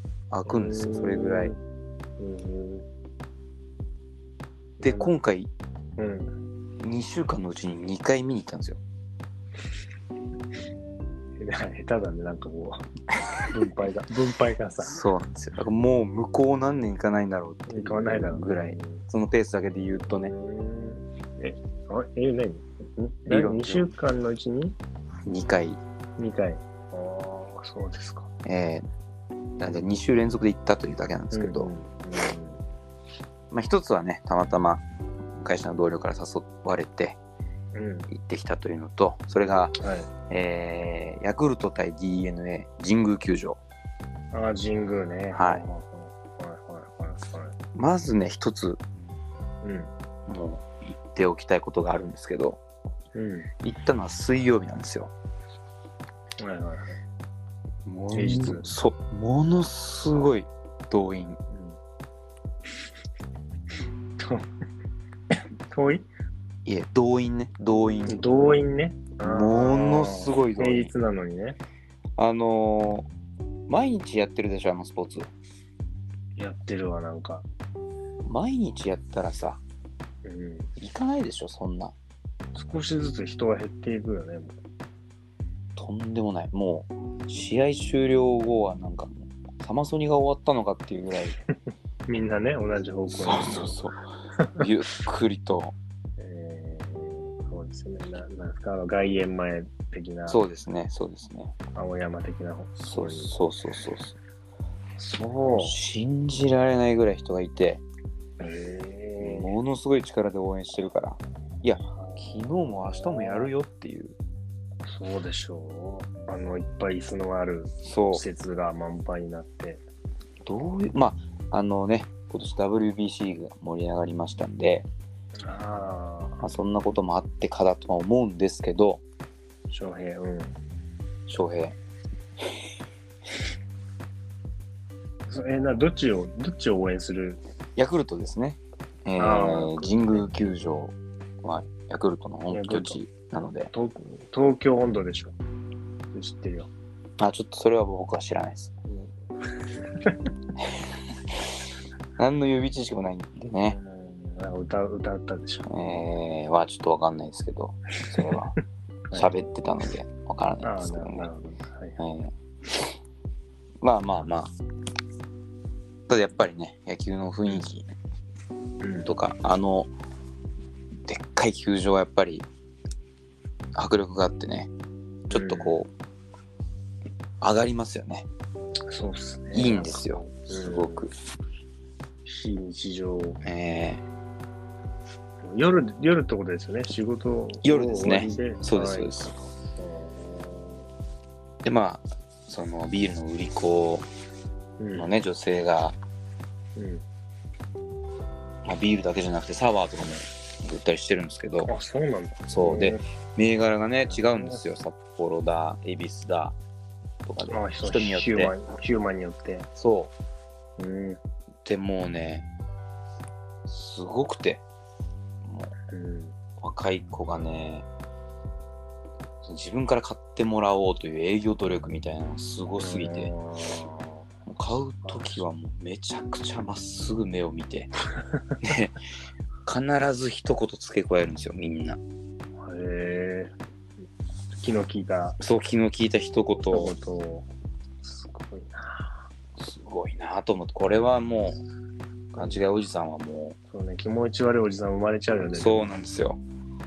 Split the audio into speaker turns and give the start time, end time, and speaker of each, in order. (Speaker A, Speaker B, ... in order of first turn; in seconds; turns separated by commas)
Speaker A: 0.3-1.5, Speaker B: 0.5-1.6, Speaker B: 2.2-2.9, Speaker A: 4.8-5.5, Speaker B: 4.8-5.1, Speaker B: 6.0-6.3, Speaker A: 6.8-8.8, Speaker B: 11.4-12.9, Speaker B: 13.5-15.0, Speaker A: 14.8-20.3, Speaker B: 17.7-19.0, Speaker B: 20.1-24.8, Speaker A: 23.3-23.9, Speaker A: 25.2-25.8, Speaker B: 26.2-28.3, Speaker A: 28.4-28.9, Speaker A: 29.6-31.7, Speaker B: 31.3-32.6, Speaker A: 33.5-34.9, Speaker A: 35.4-37.2, Speaker B: 37.7-38.1, Speaker A: 38.1-39.8, Speaker B: 39.8-40.1, Speaker A: 40.3-43.6, Speaker B: 44.3-47.5, Speaker A: 45.3-45.6, Speaker A: 47.8-48.8, Speaker B: 49.6-49.9, Speaker A: 50.3-52.6, Speaker B: 53.1-53.5, Speaker A: 53.6-55.1, Speaker B: 56.4-57.0, Speaker A: 57.9-61.4, Speaker B: 58.1-58.7, Speaker B: 61.5-61.8, Speaker B: 64.2-64.5, Speaker B: 65.7-66.1, Speaker A: 66.7-68.6, Speaker B: 68.1-71.6, Speaker A: 69.2-70.9, Speaker A: 72.2-73.1, Speaker A: 73.7-75.3, Speaker B: 76.4-77.5, Speaker A: 78.2-79.6, Speaker B: 80.2-80.7, Speaker A: 80.8-82.0, Speaker B: 82.5-84.6, Speaker A: 85.8-91.4, Speaker B: 92.1-93.8, Speaker A: 93.1-94.0, Speaker A: 94.6-95.8, Speaker B: 96.2-100.4, Speaker A: 100.3-101.5, Speaker B: 101.8-103.3, Speaker A: 102.8-104.2, Speaker B: 105.0-105.8, Speaker A: 105.5-107.8, Speaker B: 108.4-109.5, Speaker A: 109.2-114.2, Speaker B: 111.9-113.5, Speaker B: 114.9-119.8, Speaker A: 117.8-118.2, Speaker A: 120.4-124.9, Speaker B: 125.4-126.4, Speaker A: 126.4-129.0, Speaker B: 129.7-130.6, Speaker A: 131.3-131.8, Speaker B: 135.3-137.4, Speaker A: 137.8-143.7, Speaker B: 139.2-140.3, Speaker B: 142.5-143.0, Speaker B: 143.7-145.4, Speaker B: 146.1-146.7, Speaker A: 147.2-148.7, Speaker B: 149.7-150.2, Speaker A: 152.2-153.8, Speaker B: 153.7-156.1, Speaker A: 155.7-158.5, Speaker A: 159.1-161.3, Speaker B: 160.6-162.0, Speaker A: 162.0-162.3, Speaker A: 163.8-164.5, Speaker A: 166.1-167.9, Speaker B: 168.8-169.1, Speaker A: 169.0-169.9, Speaker A: 171.1-172.5, Speaker A: 173.8-174.7, Speaker A: 175.3-175.9, Speaker B: 175.3-175.8, Speaker A: 177.4-178.3, Speaker B: 178.9-181.1, Speaker A: 179.5-181.1, Speaker B: 182.2-183.4, Speaker A: 183.4-184.0, Speaker B: 185.4-190.9, Speaker A: 187.6-189.3, Speaker A: 191.6-194.1, Speaker B: 194.8-195.1, Speaker A: 194.9-196.0, Speaker B: 196.8-197.0, Speaker A: 198.6-201.7, Speaker B: 201.7-203.0, Speaker A: 202.5-206.6, Speaker B: 204.0-204.6, Speaker A: 207.2-208.6, Speaker B: 207.5-209.7, Speaker A: 209.8-210.1, Speaker B: 210.8-211.2, Speaker A: 211.7-212.5, Speaker A: 213.7-214.6, Speaker A: 215.4-215.7, Speaker B: 215.9-216.4, Speaker A: 216.6-217.9, Speaker A: 219.4-223.3, Speaker B: 222.8-224.3, Speaker A: 224.5-227.9, Speaker B: 225.1-225.4, Speaker A: 228.6-229.0, Speaker A: 229.7-232.0, Speaker B: 232.6-233.6, Speaker B: 234.6-235.4, Speaker A: 235.4-236.9, Speaker B: 236.7-237.5, Speaker B: 238.0-239.2, Speaker A: 239.6-241.6, Speaker A: 242.3-243.6, Speaker B: 242.4-242.6, Speaker B: 243.7-245.9, Speaker A: 245.5-246.4